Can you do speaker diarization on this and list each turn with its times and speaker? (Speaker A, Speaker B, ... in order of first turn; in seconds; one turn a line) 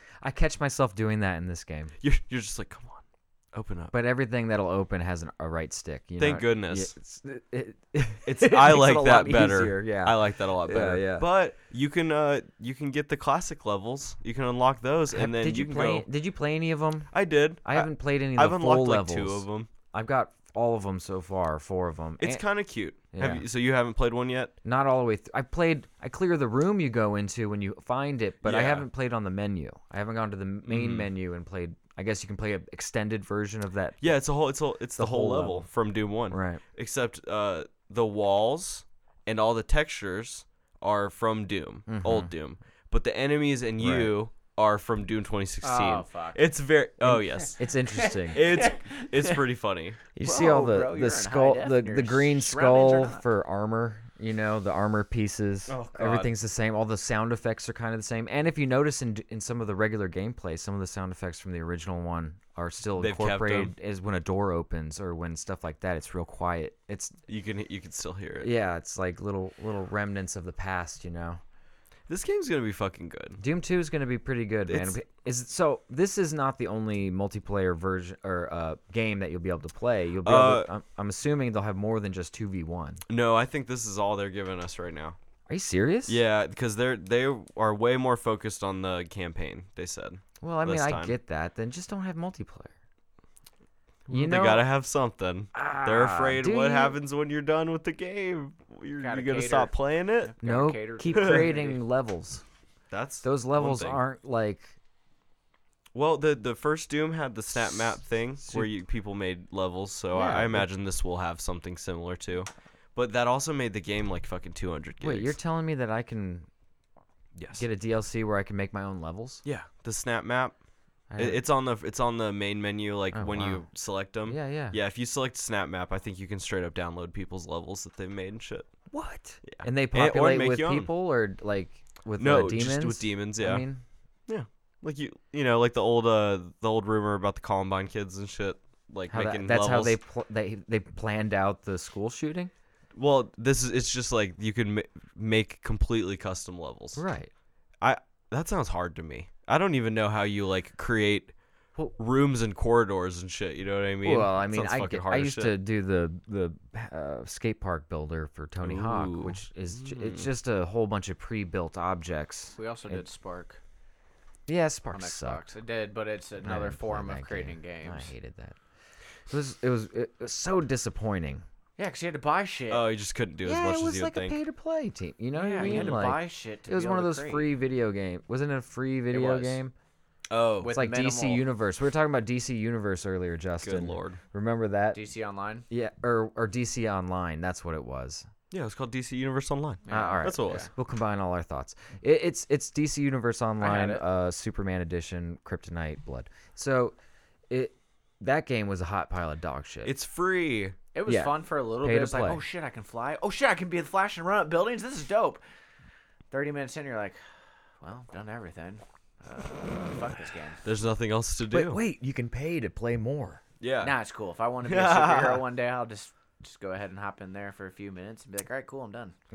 Speaker A: 0.2-1.9
Speaker B: 2.0-3.9
Speaker A: 3.9-11.2
Speaker B: 6.2-6.9
Speaker B: 8.2-16.1
Speaker A: 15.1-17.1
Speaker B: 17.1-19.7
Speaker A: 17.6-22.4
Speaker B: 22.2-24.5
Speaker A: 23.0-23.4
Speaker A: 24.6-34.0
Speaker B: 28.4-28.9
Speaker B: 30.6-31.1
Speaker B: 34.0-47.6
Speaker A: 35.0-35.6
Speaker A: 36.3-36.6
Speaker A: 41.9-42.3
Speaker A: 43.8-44.1
Speaker C: 45.6-46.4
Speaker A: 47.0-48.5
Speaker C: 47.4-49.4
Speaker B: 48.3-50.0
Speaker A: 50.1-67.2
Speaker C: 50.2-53.2
Speaker B: 55.7-56.3
Speaker B: 63.0-63.7
Speaker B: 67.3-68.5
Speaker A: 68.4-71.4
Speaker B: 72.1-73.4
Speaker A: 73.4-83.0
Speaker B: 74.7-74.9
Speaker B: 80.2-80.7
Speaker B: 83.1-85.2
Speaker A: 85.5-86.2
Speaker B: 86.1-91.1
Speaker A: 90.4-92.7
Speaker B: 94.1-100.3
Speaker A: 94.1-94.6
Speaker A: 95.5-97.0
Speaker C: 99.0-101.8
Speaker A: 100.4-102.4
Speaker B: 101.1-101.5
Speaker B: 102.9-104.0
Speaker A: 103.2-104.8
Speaker B: 105.9-115.4
Speaker A: 110.1-110.7
Speaker A: 115.0-116.5
Speaker B: 117.3-117.6
Speaker A: 117.6-119.4
Speaker B: 119.4-120.6
Speaker A: 121.1-121.4
Speaker B: 121.2-128.7
Speaker A: 123.1-123.7
Speaker A: 124.2-124.8
Speaker A: 128.9-133.8
Speaker B: 129.4-130.9
Speaker B: 132.2-133.6
Speaker B: 134.3-140.0
Speaker A: 139.1-142.5
Speaker B: 142.9-147.0
Speaker A: 146.9-147.3
Speaker B: 147.8-151.3
Speaker B: 152.0-155.5
Speaker A: 154.0-163.0
Speaker B: 158.6-160.3
Speaker C: 162.6-163.6
Speaker A: 164.5-165.4
Speaker C: 164.9-168.1
Speaker A: 166.4-168.6
Speaker A: 169.3-171.4
Speaker C: 171.8-172.9
Speaker B: 172.7-174.4
Speaker A: 173.4-179.7
Speaker C: 175.3-177.5
Speaker B: 175.6-176.0
Speaker C: 179.1-179.6
Speaker B: 180.3-180.7
Speaker C: 180.6-181.4
Speaker A: 180.7-185.0
Speaker B: 183.6-184.2
Speaker C: 184.9-185.7
Speaker A: 185.7-188.3
Speaker B: 188.5-190.7
Speaker C: 189.9-190.7
Speaker A: 189.9-196.9
Speaker C: 193.6-194.0
Speaker A: 197.5-199.9
Speaker B: 199.8-200.8
Speaker C: 200.9-205.4
Speaker A: 201.1-202.4
Speaker C: 206.3-207.2
Speaker C: 207.8-210.6
Speaker B: 210.6-211.8
Speaker A: 211.5-213.4
Speaker B: 213.6-213.9
Speaker C: 213.8-219.1
Speaker B: 214.6-215.4